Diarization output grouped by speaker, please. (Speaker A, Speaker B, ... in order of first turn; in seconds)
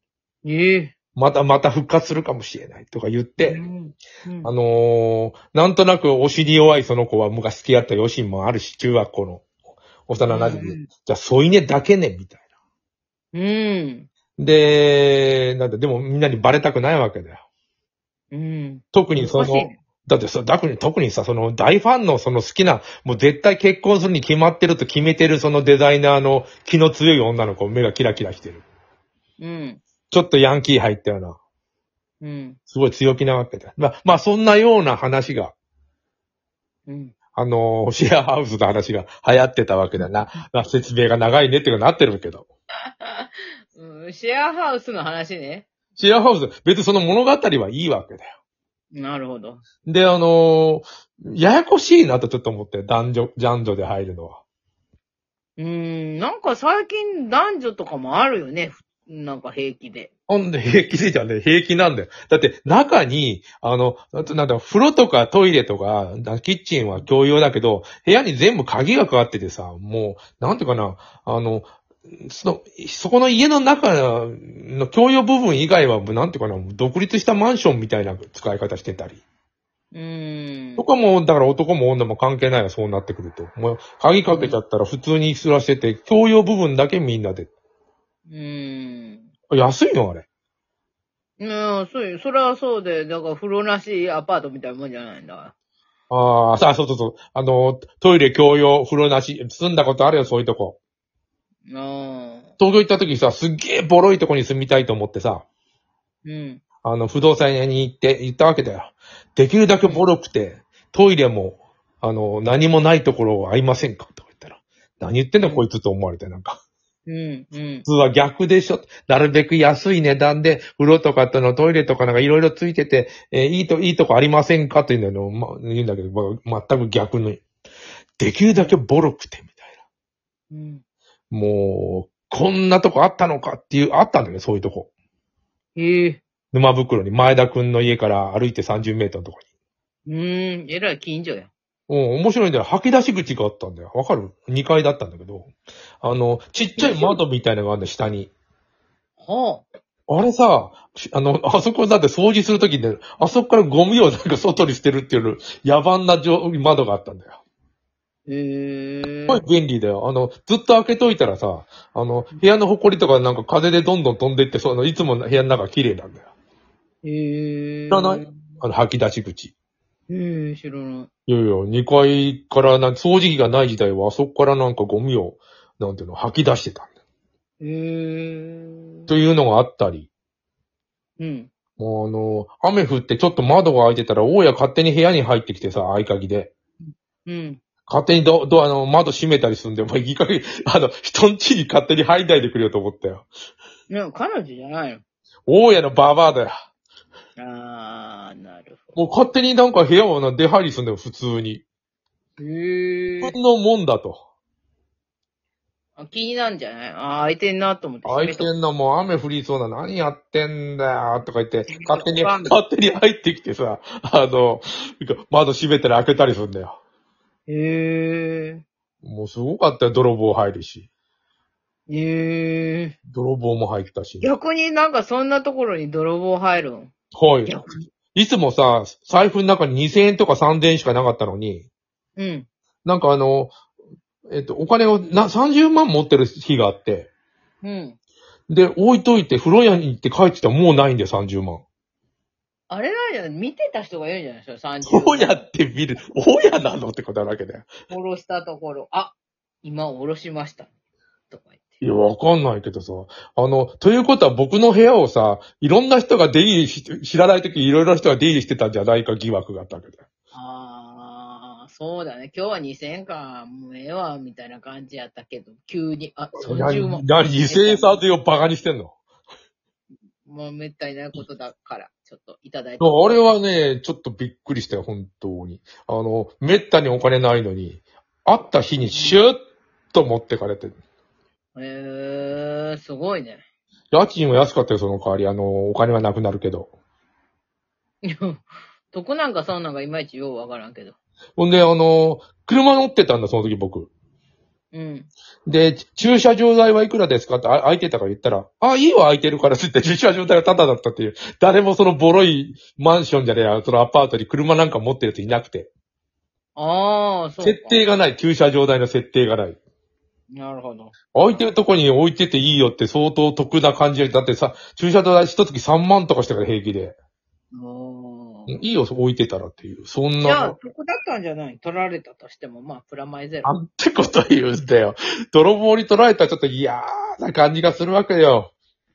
Speaker A: 0.4-0.9, 3.4-4.5, 10.2-10.9, 13.3-14.1, 18.3-19.8, 29.4-29.8, 32.2-32.6, 36.9-37.1, 43.0-45.7, 48.9-49.6, 55.6-60.1, 79.9-80.8, 84.3-84.6, 88.3-89.3, 91.4-95.5, 101.7-102.5, 106.2-106.6, 115.4-115.7, 117.0-117.8, 128.5-128.8, 130.5-130.8, 135.7-136.2, 140.1-141.5, 146.8-147.2, 149.2-149.7, 158.3-159.4, 167.0-168.3, 170.1-171.1, 177.6-179.0, 181.2-181.5, 187.2-187.6, 193.9-195.0, 197.4-199.0, 202.4-203.3, 206.0-208.5, 211.7-212.5, 217.5-218.6, 221.9-222.9, 224.2-226.9, 227.5-227.8, 232.2-232.5, 237.6-238.0, 242.7-245.4, 247.9-250.7, 251.3-251.7, 260.3-268.0, 270.2-273.2, 278.9-279.2, 281.6-283.4, 288.0-290.9, 294.7-295.1, 306.5-307.8, 310.4-311.4, 317.5-318.5, 320.2-323.5
Speaker B: 1.1-3.6, 4.4-9.4, 10.1-12.4, 14.4-17.4, 18.9-28.6, 30.1-31.4, 32.7-35.5, 37.4-42.5, 46.0-48.3, 49.9-54.4, 60.3-79.2, 80.8-87.5, 89.5-90.2, 96.1-100.8, 102.6-105.4, 106.8-116.6, 117.8-127.4, 128.2-129.6, 131.3-134.9, 136.5-139.4, 141.9-145.5, 146.0-148.3, 150.1-157.3, 159.3-166.2, 167.9-169.5, 171.3-176.9, 179.1-180.1, 181.8-186.5, 187.9-193.3, 195.5-196.5, 198.9-201.6, 203.2-204.2, 208.0-216.8, 219.0-220.9, 223.1-224.3, 227.1-227.5, 228.1-231.7, 232.8-233.5, 234.3-237.1, 238.5-241.6, 244.8-247.7, 251.8-260.0, 266.4-268.9, 272.8-279.4, 279.9-280.8, 283.9-286.7, 291.4-293.9, 295.5-305.7, 307.4-309.6, 311.1-316.9, 318.5-320.6, 323.4-328.5